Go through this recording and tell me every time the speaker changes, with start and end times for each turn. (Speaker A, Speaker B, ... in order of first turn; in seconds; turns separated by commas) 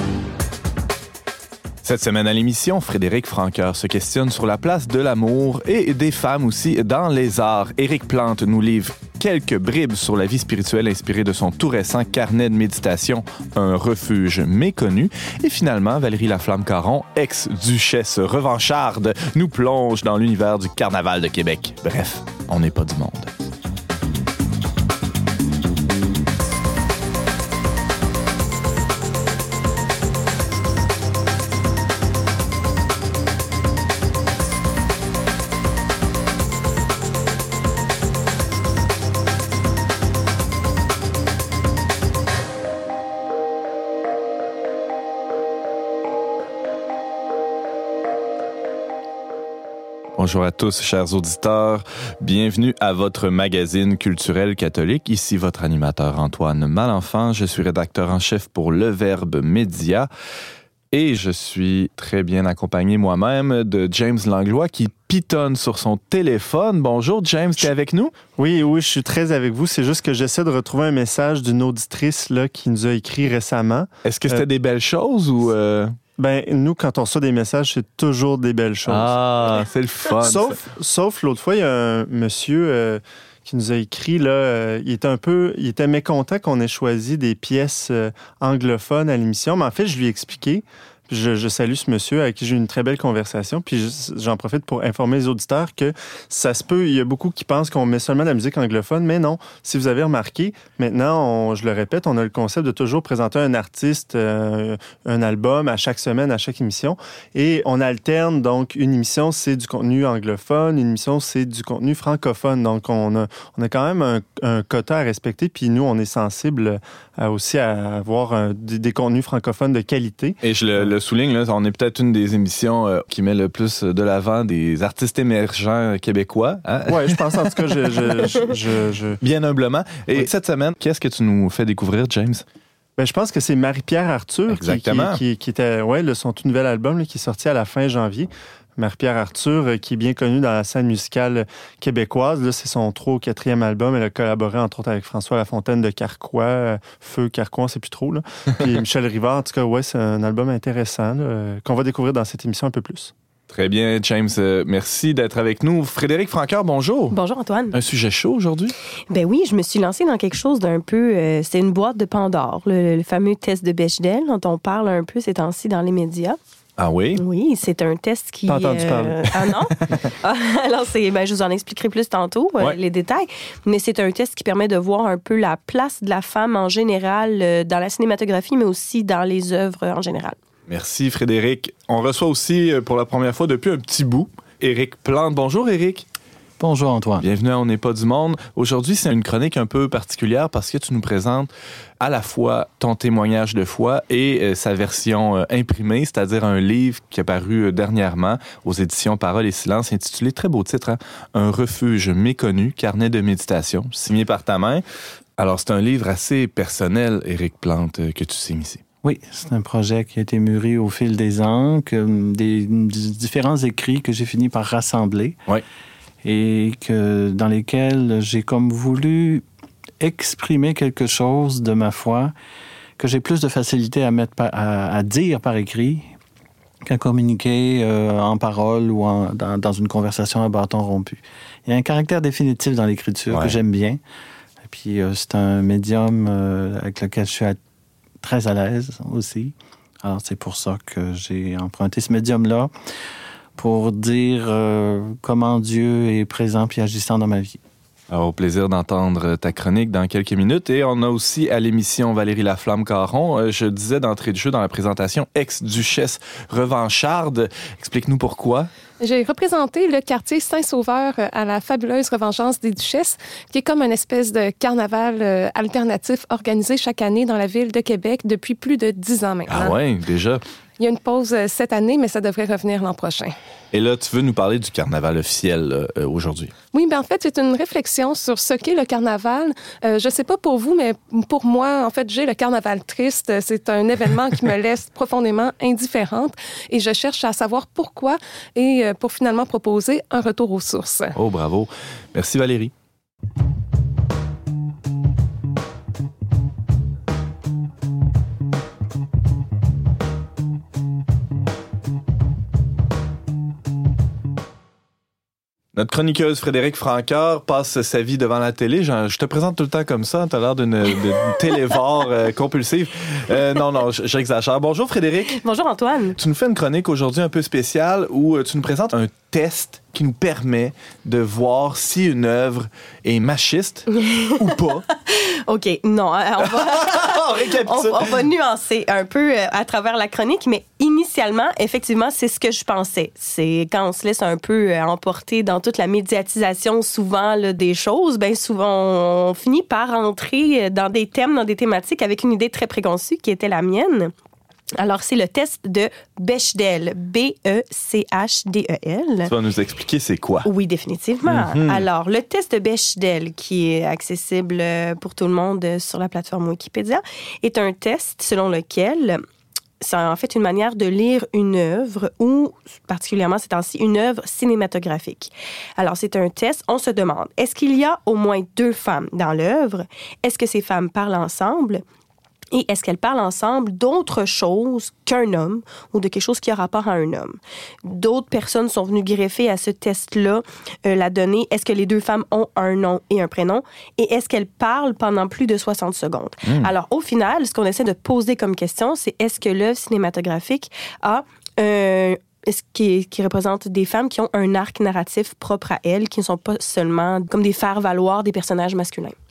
Speaker A: 1.8-23.3, Speaker A: 50.1-60.1, Speaker A: 60.9-68.1, Speaker B: 68.4-74.4, Speaker A: 74.0-76.0, Speaker B: 76.2-79.7, Speaker A: 78.8-80.6, Speaker B: 80.2-120.9, Speaker A: 120.4-127.4, Speaker B: 126.9-129.2, Speaker A: 129.2-132.4, Speaker B: 133.0-153.1, Speaker A: 134.5-135.2, Speaker A: 153.5-157.1, Speaker C: 157.1-157.8, Speaker A: 157.7-158.7, Speaker C: 159.1-166.4, Speaker A: 166.8-167.2, Speaker C: 167.2-180.4, Speaker B: 168.5-170.0, Speaker A: 180.7-186.1, Speaker D: 186.6-187.2, Speaker A: 187.2-204.8, Speaker A: 205.4-208.8, Speaker D: 209.0-215.4, Speaker D: 216.2-219.4, Speaker D: 220.0-222.3, Speaker D: 223.0-226.1, Speaker D: 226.8-234.0, Speaker A: 233.3-233.6, Speaker D: 234.6-237.6, Speaker D: 238.2-242.7, Speaker D: 243.6-247.6, Speaker A: 248.1-258.7, Speaker E: 259.0-269.8, Speaker A: 269.5-270.4, Speaker E: 270.8-273.3, Speaker A: 273.7-276.5, Speaker E: 276.7-291.1, Speaker A: 291.1-292.7, Speaker A: 305.7-315.4, Speaker C: 315.3-316.2, Speaker A: 316.1-324.9, Speaker C: 323.9-344.1, Speaker A: 326.4-328.2, Speaker C: 344.8-349.3, Speaker A: 349.2-350.5, Speaker C: 350.4-359.2, Speaker A: 351.3-351.8, Speaker C: 359.8-371.8, Speaker C: 372.5-399.1